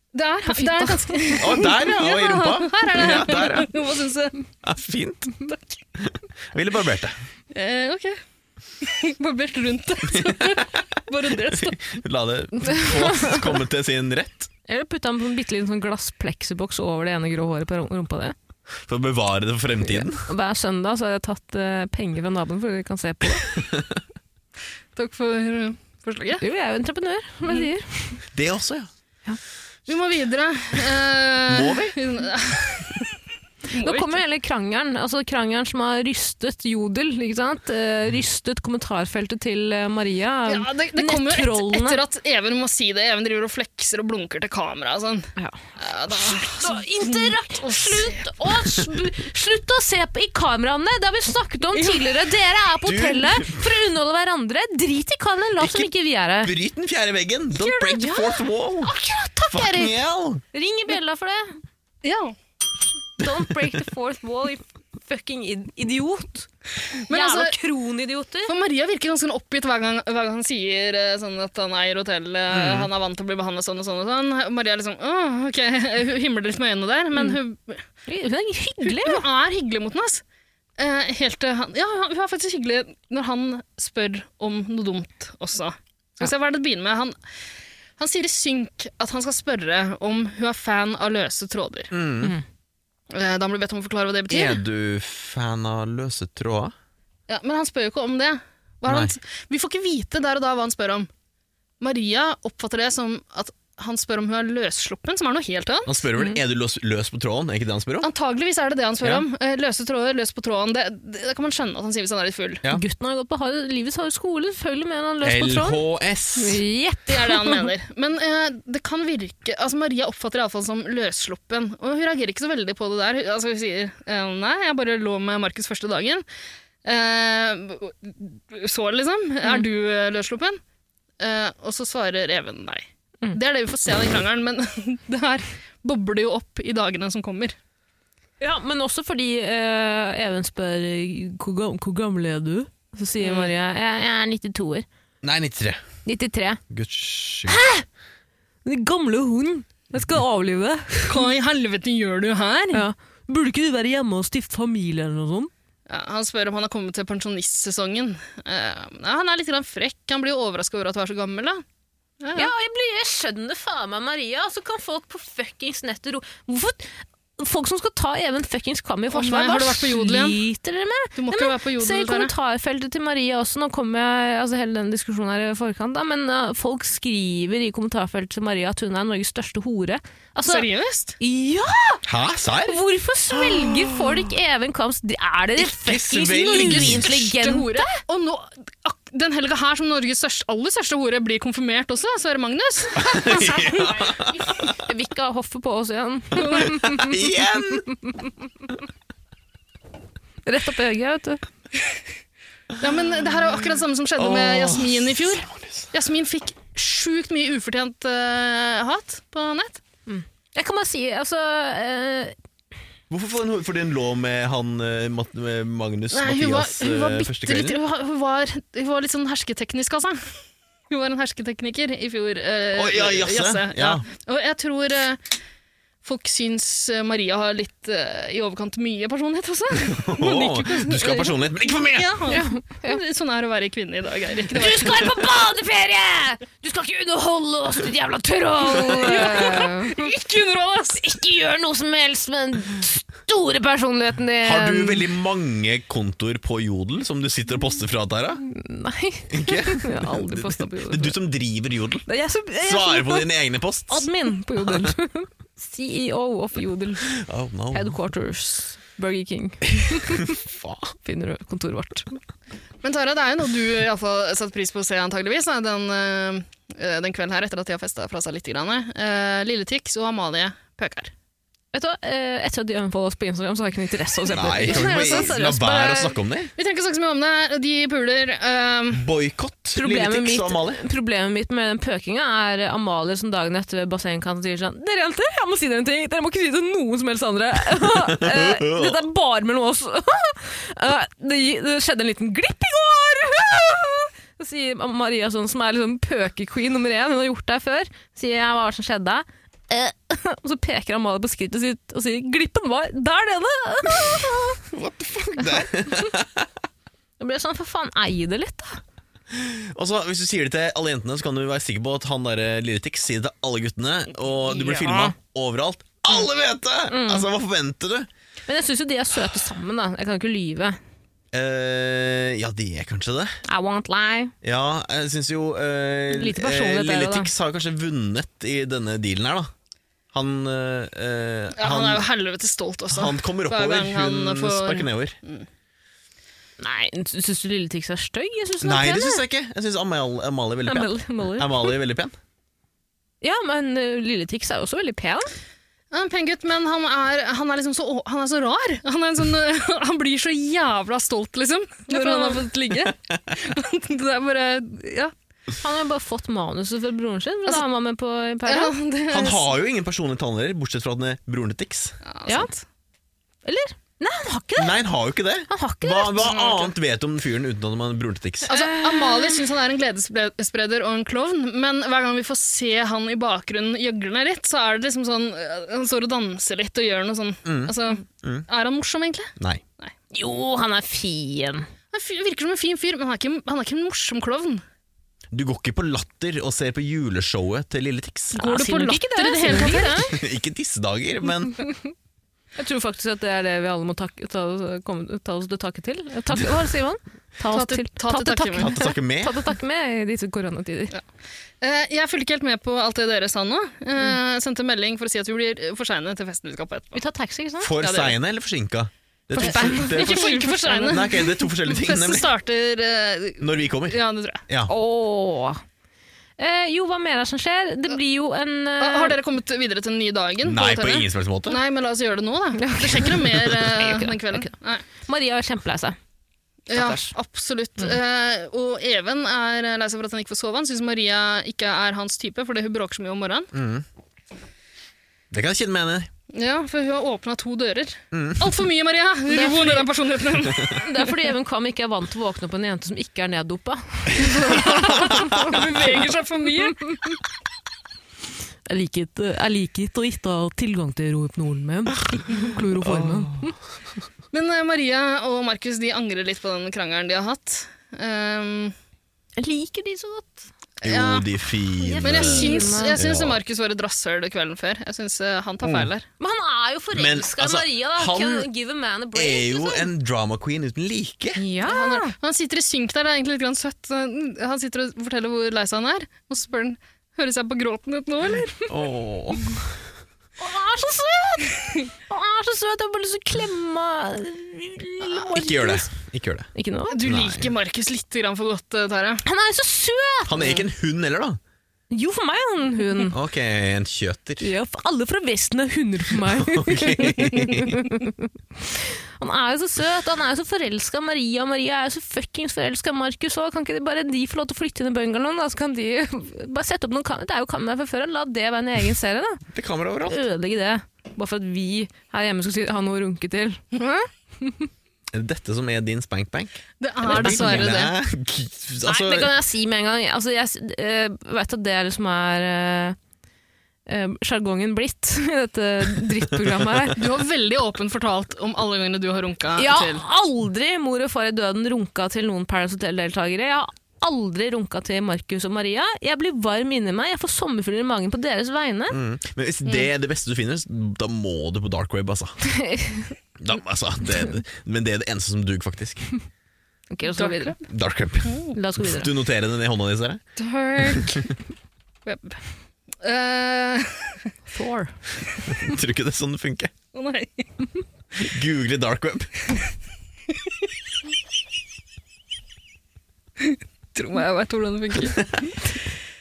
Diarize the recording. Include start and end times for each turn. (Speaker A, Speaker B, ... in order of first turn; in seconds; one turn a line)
Speaker A: 0.1-4.3
Speaker B: 0.5-1.6
Speaker C: 1.4-3.7
Speaker C: 4.6-5.3
Speaker C: 6.0-7.2
Speaker A: 7.5-8.2
Speaker A: 8.8-11.9
Speaker C: 10.1-10.8
Speaker C: 11.5-14.5
Speaker B: 12.6-13.4
Speaker B: 14.7-18.4
Speaker C: 18.9-20.3
Speaker B: 19.9-23.5
Speaker C: 23.6-24.0
Speaker A: 25.0-26.4
Speaker B: 26.4-28.2
Speaker C: 28.3-28.9
Speaker A: 29.9-33.2
Speaker C: 31.5-32.0
Speaker A: 33.7-34.2
Speaker B: 33.8-42.0
Speaker A: 40.5-48.3
Speaker B: 46.1-56.5
Speaker A: 51.7-52.1
Speaker C: 52.8-53.7
Speaker C: 55.6-55.9
Speaker C: 56.4-58.9
Speaker B: 57.9-60.0
Speaker C: 59.5-60.4
Speaker B: 60.5-61.6
Speaker A: 62.0-62.4
Speaker B: 63.2-66.5
Speaker A: 67.1-67.6
Speaker B: 67.1-68.5
Speaker A: 68.5-77.8
Speaker C: 72.5-72.9
Speaker B: 78.1-79.2
Speaker A: 78.8-80.2
Speaker A: 80.8-87.2
Speaker A: 88.0-91.9
Speaker C: 91.9-92.4
Speaker A: 93.1-94.6
Speaker C: 94.3-96.7
Speaker A: 97.3-101.1
Speaker C: 98.9-99.1
Speaker A: 101.8-106.0
Speaker C: 105.9-108.1
Speaker A: 108.0-112.6
Speaker B: 112.7-115.8
Speaker C: 115.2-116.6
Speaker B: 116.4-117.7
Speaker A: 117.1-126.2
Speaker A: 126.8-130.6
Speaker A: 131.2-137.6
Speaker B: 138.4-144.9
Speaker A: 143.2-143.5
Speaker C: 145.2-145.8
Speaker B: 146.1-146.6
Speaker C: 146.7-147.6
Speaker B: 147.5-147.8
Speaker B: 148.7-151.1
Speaker A: 151.1-152.8
Speaker B: 152.7-155.5
Speaker A: 155.9-161.6
Speaker A: 162.2-162.5
Speaker B: 162.3-180.7
Speaker A: 169.1-170.4
Speaker A: 171.2-172.3
Speaker A: 180.4-181.2
Speaker B: 181.2-182.0
Speaker C: 182.1-182.8
Speaker B: 182.7-188.0
Speaker C: 183.3-184.0
Speaker C: 185.6-187.3
Speaker A: 186.5-194.2
Speaker C: 193.0-194.8
Speaker B: 193.3-193.9
Speaker B: 194.8-197.2
Speaker A: 196.4-196.8
Speaker C: 196.5-197.9
Speaker B: 197.9-198.2
Speaker B: 200.5-201.4
Speaker A: 202.8-209.8
Speaker C: 204.2-205.9
Speaker B: 210.1-212.3
Speaker C: 213.1-217.8
Speaker A: 216.1-220.4
Speaker A: 220.9-225.2
Speaker C: 222.8-224.0
Speaker A: 226.0-235.2
Speaker C: 229.8-232.1
Speaker B: 232.3-233.0
Speaker B: 234.5-240.1
Speaker A: 238.8-241.0
Speaker B: 241.0-245.1
Speaker C: 244.4-248.4
Speaker B: 248.4-251.2
Speaker C: 249.3-252.1
Speaker B: 252.1-253.3
Speaker C: 252.6-254.1
Speaker B: 253.9-257.2
Speaker C: 254.6-254.9
Speaker C: 257.1-258.0
Speaker B: 257.7-260.4
Speaker C: 259.9-260.9
Speaker B: 261.1-262.1
Speaker A: 262.8-271.1
Speaker B: 271.7-276.1
Speaker C: 274.3-276.5
Speaker A: 274.6-279.1
Speaker C: 278.9-280.8
Speaker B: 279.8-304.6
Speaker C: 287.8-289.0
Speaker C: 304.6-306.5
Speaker B: 305.4-305.6
Speaker B: 307.2-308.8
Speaker C: 309.3-318.1
Speaker A: 314.6-315.1
Speaker B: 314.7-315.1
Speaker B: 316.9-317.3
Speaker B: 318.5-320.8
Speaker C: 321.3-323.4
Speaker B: 323.5-324.3
Speaker C: 324.4-329.5
Speaker B: 326.1-327.3
Speaker C: 330.1-332.1
Speaker A: 331.6-335.5
Speaker C: 332.9-335.2
Speaker B: 336.6-339.2
Speaker C: 338.6-342.2
Speaker B: 340.7-341.8
Speaker B: 343.2-345.3
Speaker A: 345.9-355.1
Speaker B: 351.9-352.5
Speaker B: 355.6-358.7
Speaker A: 358.4-359.5
Speaker C: 359.1-362.0
Speaker A: 362.0-362.6
Speaker B: 363.4-364.8
Speaker C: 364.6-368.5
Speaker B: 365.5-366.7
Speaker A: 366.2-366.7
Speaker A: 368.5-379.9
Speaker B: 368.5-369.4
Speaker C: 377.4-378.5
Speaker C: 379.4-379.6
Speaker B: 380.1-381.7
Speaker A: 381.9-384.6
Speaker C: 385.3-388.4
Speaker B: 388.4-390.1
Speaker A: 388.4-390.2
Speaker C: 390.1-391.6
Speaker B: 391.5-391.9
Speaker B: 392.6-401.0
Speaker A: 397.5-398.7
Speaker C: 398.6-399.4
Speaker A: 401.6-407.0
Speaker B: 406.9-407.7
Speaker C: 407.6-412.3
Speaker A: 407.8-408.2
Speaker A: 409.3-414.4
Speaker B: 409.4-411.1
Speaker C: 413.4-414.7
Speaker B: 414.7-415.6
Speaker B: 416.4-419.2
Speaker A: 418.8-424.8
Speaker C: 420.4-421.6
Speaker B: 422.6-424.5
Speaker B: 425.0-426.0
Speaker A: 426.7-433.5
Speaker B: 426.7-427.1
Speaker C: 433.5-433.9
Speaker C: 435.3-436.1
Speaker A: 436.3-441.2
Speaker C: 438.1-438.6
Speaker B: 439.3-439.9
Speaker B: 440.7-445.9
Speaker A: 444.5-446.8
Speaker C: 444.7-445.4
Speaker B: 446.8-447.1
Speaker B: 448.7-453.6
Speaker C: 452.8-453.6
Speaker A: 454.3-458.8
Speaker B: 459.4-460.5
Speaker A: 460.8-461.3
Speaker C: 460.8-463.4
Speaker B: 461.8-463.0
Speaker A: 461.9-466.1
Speaker C: 465.6-465.9
Speaker B: 466.2-469.9
Speaker C: 466.9-468.5
Speaker C: 469.1-471.4
Speaker B: 471.4-472.1
Speaker A: 471.6-478.7
Speaker C: 478.7-479.7
Speaker B: 480.4-485.9
Speaker C: 485.3-486.5
Speaker B: 486.5-487.0
Speaker A: 486.9-489.2
Speaker C: 487.0-487.5
Speaker B: 489.2-490.6
Speaker C: 490.3-491.4
Speaker B: 491.9-493.2
Speaker C: 493.1-494.5
Speaker B: 494.4-509.4
Speaker C: 496.3-497.8
Speaker C: 509.5-510.2
Speaker B: 510.1-514.7
Speaker C: 515.1-519.3
Speaker A: 516.8-518.0
Speaker B: 517.0-517.7
Speaker B: 518.9-523.0
Speaker B: 523.9-527.0
Speaker C: 526.5-526.9
Speaker A: 527.0-530.0
Speaker B: 529.6-539.0
Speaker C: 538.9-542.4
Speaker B: 542.4-543.1
Speaker C: 543.4-546.1
Speaker B: 546.9-547.6
Speaker A: 547.1-547.6
Speaker C: 547.6-550.2
Speaker A: 548.2-548.6
Speaker B: 548.5-549.1
Speaker A: 550.4-551.3
Speaker C: 550.8-551.2
Speaker A: 552.1-552.4
Speaker A: 553.0-554.3
Speaker B: 554.5-555.0
Speaker C: 555.5-556.7
Speaker A: 556.9-557.5
Speaker C: 558.2-559.3
Speaker A: 563.4-565.5